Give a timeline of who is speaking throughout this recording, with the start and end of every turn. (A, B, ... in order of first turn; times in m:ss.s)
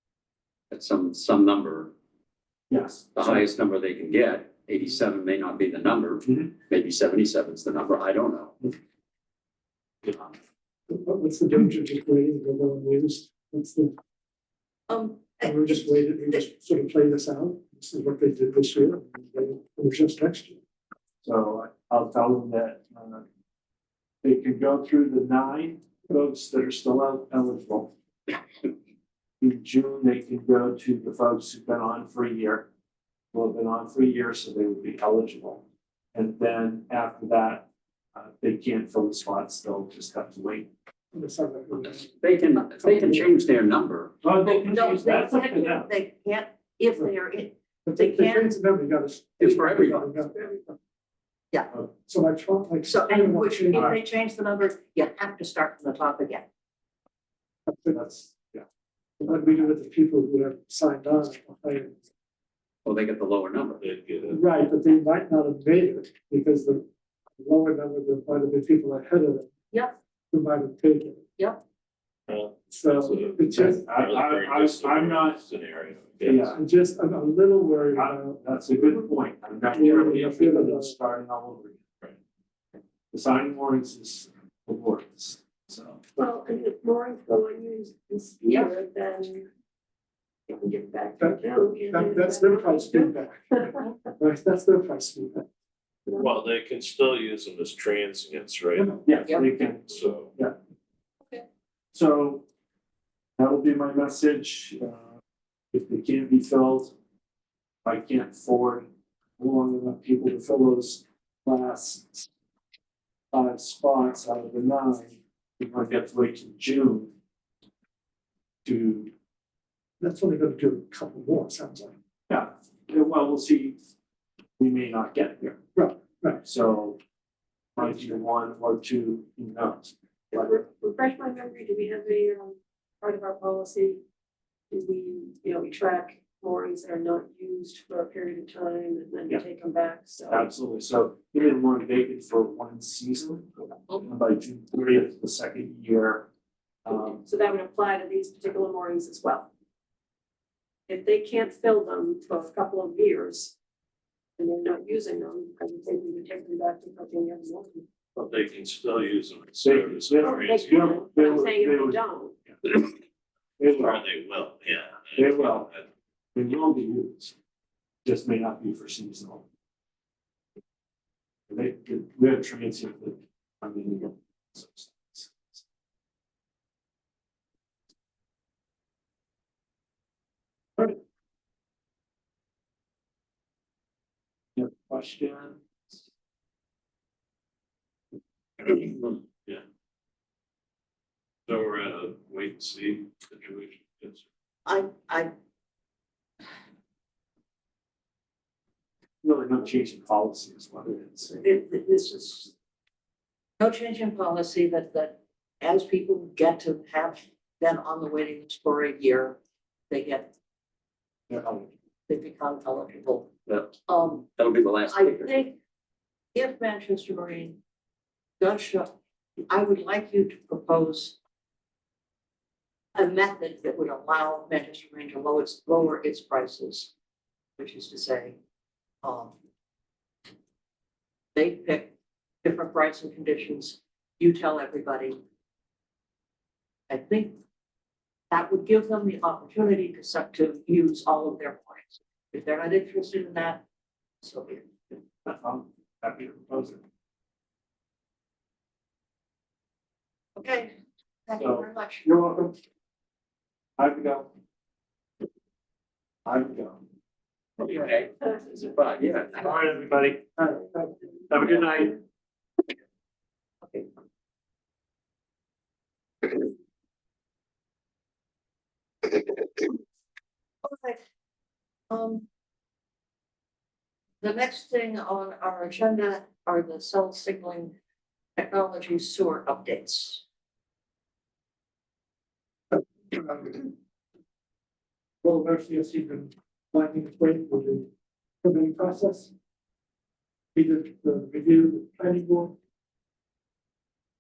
0:00.7-0:01.9 A
0:02.7-0:03.4 B
0:03.2-0:08.6 A
0:10.9-0:13.9 C
0:14.9-0:16.5 D
0:15.4-0:20.6 C
0:21.2-0:23.2 B
0:24.2-0:27.9 B
0:29.4-0:32.7 B
0:33.3-0:40.7 B
0:41.1-0:42.1 C
0:41.9-0:44.2 A
0:42.8-0:43.2 C
0:44.2-0:45.9 B
0:44.4-0:48.5 D
0:47.8-0:50.7 C
0:49.4-0:50.0 A
0:51.9-0:54.0 C
0:52.8-0:56.5 D
0:57.7-0:58.2 C
0:58.0-0:58.6 B
0:59.2-1:02.0 C
1:02.8-1:03.8 A
1:03.8-1:04.4 E
1:04.3-1:06.8 C
1:07.4-1:09.5 C
1:10.3-1:11.2 C
1:12.3-1:16.6 E
1:12.7-1:13.9 C
1:13.8-1:15.4 B
1:16.2-1:16.6 B
1:16.5-1:19.0 C
1:17.9-1:21.8 B
1:19.7-1:20.9 C
1:23.1-1:26.0 B
1:26.2-1:29.5 F
1:28.4-1:28.7 D
1:30.5-1:33.9 F
1:31.2-1:35.5 C
1:36.1-1:36.4 F
1:36.2-1:39.0 E
1:39.0-1:40.6 B
1:39.9-1:40.3 E
1:41.9-1:42.4 B
1:43.4-1:45.1 B
1:45.7-1:46.9 B
1:47.8-1:48.9 B
1:49.4-1:52.3 B
1:53.3-1:57.1 B
1:58.6-1:59.1 B
2:00.0-2:02.0 C
2:02.3-2:03.8 B
2:04.6-2:05.6 B
2:05.8-2:06.4 C
2:06.4-2:07.0 B
2:07.8-2:10.6 B
2:10.3-2:14.0 F
2:14.7-2:20.5 F
2:20.3-2:26.3 B
2:26.9-2:27.2 B
2:27.2-2:29.5 F
2:30.9-2:33.6 F
2:34.4-2:37.9 F
2:38.2-2:41.1 E
2:39.6-2:42.0 B
2:40.2-2:42.4 F
2:43.6-2:44.0 B
2:43.7-2:45.8 E
2:45.2-2:45.7 B
2:46.4-2:47.3 B
2:48.0-2:49.4 B
2:51.5-2:55.6 B
3:04.6-3:06.0 B
3:11.5-3:14.2 E
3:14.7-3:15.3 D
3:19.2-3:21.4 B
3:21.4-3:22.5 D
3:23.6-3:29.4 D
3:29.9-3:30.3 D
3:31.3-3:31.7 B
3:32.1-3:33.3 D
3:33.5-3:33.7 A
3:33.9-3:34.3 D
3:34.4-3:35.4 A
3:34.9-3:35.6 D
3:36.4-3:37.6 D
3:38.4-3:38.9 D
3:39.5-3:41.2 D
3:43.0-3:46.9 D
3:47.6-3:48.4 D
3:49.0-3:49.3 D
3:51.4-3:51.9 D
3:52.4-3:55.2 D
3:56.9-3:57.4 D
3:58.3-4:03.6 D
4:04.2-4:04.6 D
4:05.2-4:06.8 B
4:10.4-4:10.8 D
4:11.3-4:12.1 D
4:11.4-4:12.5 B
4:13.8-4:14.3 B
4:16.3-4:16.8 B
4:17.6-4:19.5 A
4:19.4-4:20.5 B
4:20.6-4:20.9 C
4:21.3-4:22.0 B
4:30.6-4:31.0 D
4:31.9-4:32.2 D
4:34.2-4:37.7 D
4:38.4-4:40.2 D
4:43.1-4:43.7 C
4:45.2-4:47.9 C
4:48.4-4:49.3 C
4:50.6-4:52.6 C